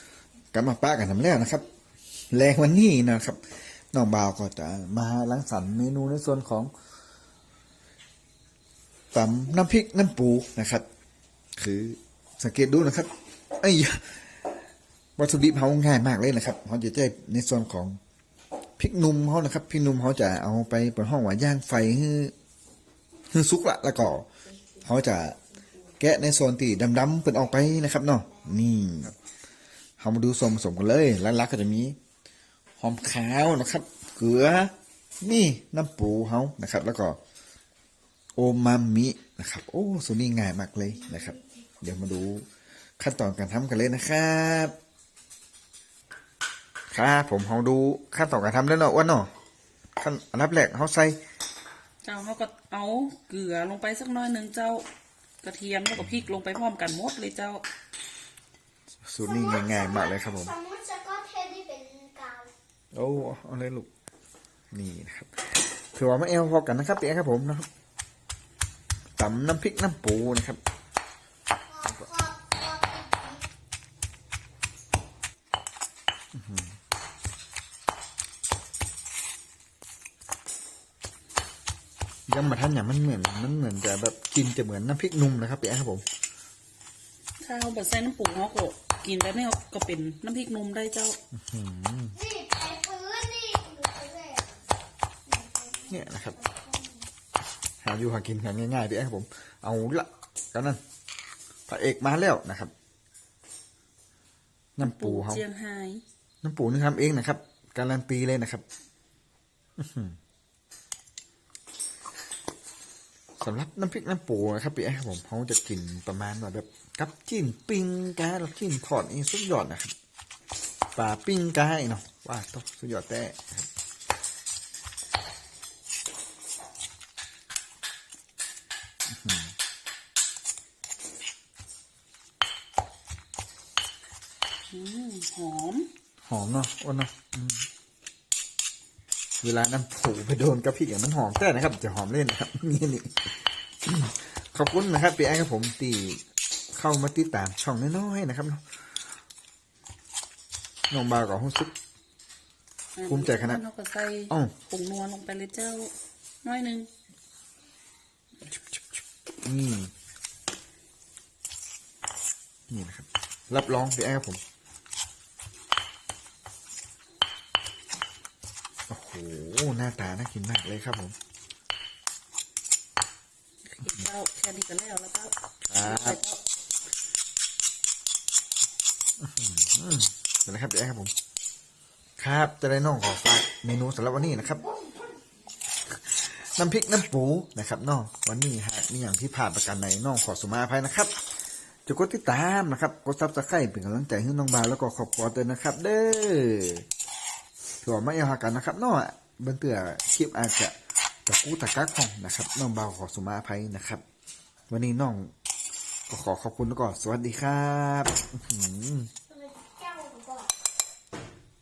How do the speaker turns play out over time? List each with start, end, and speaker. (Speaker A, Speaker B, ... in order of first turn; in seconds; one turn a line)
Speaker A: 0.5-1.7
Speaker A: 2.3-6.7
Speaker A: 9.1-10.8
Speaker A: 11.6-14.4
Speaker A: 15.2-18.0
Speaker A: 18.8-22.3
Speaker A: 23.3-24.3
Speaker A: 24.8-25.4
Speaker A: 26.0-29.2
Speaker A: 30.0-32.0
Speaker A: 32.8-37.2
Speaker A: 38.4-42.5
Speaker A: 43.0-44.8
Speaker A: 46.9-49.3
Speaker A: 50.0-51.2
Speaker B: 52.0-54.9
Speaker B: 55.4-57.6
Speaker A: 56.0-56.4
Speaker A: 59.0-60.5
Speaker C: 59.4-62.5
Speaker A: 62.9-63.9
Speaker A: 64.7-67.7
Speaker A: 69.2-70.6
Speaker C: 71.7-73.4
Speaker A: 76.3-76.8
Speaker A: 82.3-86.0
Speaker B: 87.4-91.2
Speaker A: 91.3-92.2
Speaker C: 92.2-94.5
Speaker C: 95.3-97.0
Speaker A: 95.9-96.4
Speaker A: 97.8-100.8
Speaker A: 101.7-102.7
Speaker A: 104.8-105.4
Speaker B: 104.8-106.0
Speaker A: 106.4-108.7
Speaker A: 109.8-110.2
Speaker A: 113.4-119.9
Speaker A: 121.0-123.7
Speaker A: 129.1-129.6
Speaker B: 134.7-135.9
Speaker A: 136.2-137.7
Speaker A: 139.4-146.2
Speaker A: 146.7-148.6
Speaker A: 150.9-151.7
Speaker B: 153.0-155.9
Speaker A: 153.1-153.6
Speaker B: 156.4-156.9
Speaker A: 159.4-159.9
Speaker A: 162.7-164.4
Speaker A: 168.9-171.2
Speaker B: 173.7-176.4
Speaker A: 175.7-176.2
Speaker A: 179.2-181.1
Speaker A: 182.2-184.7
Speaker A: 185.9-191.2
Speaker A: 191.9-196.8
Speaker A: 197.8-200.7
Speaker A: 201.3-204.0
Speaker A: 204.7-205.3
Speaker A: 206.1-209.1
Speaker C: 209.3-210.5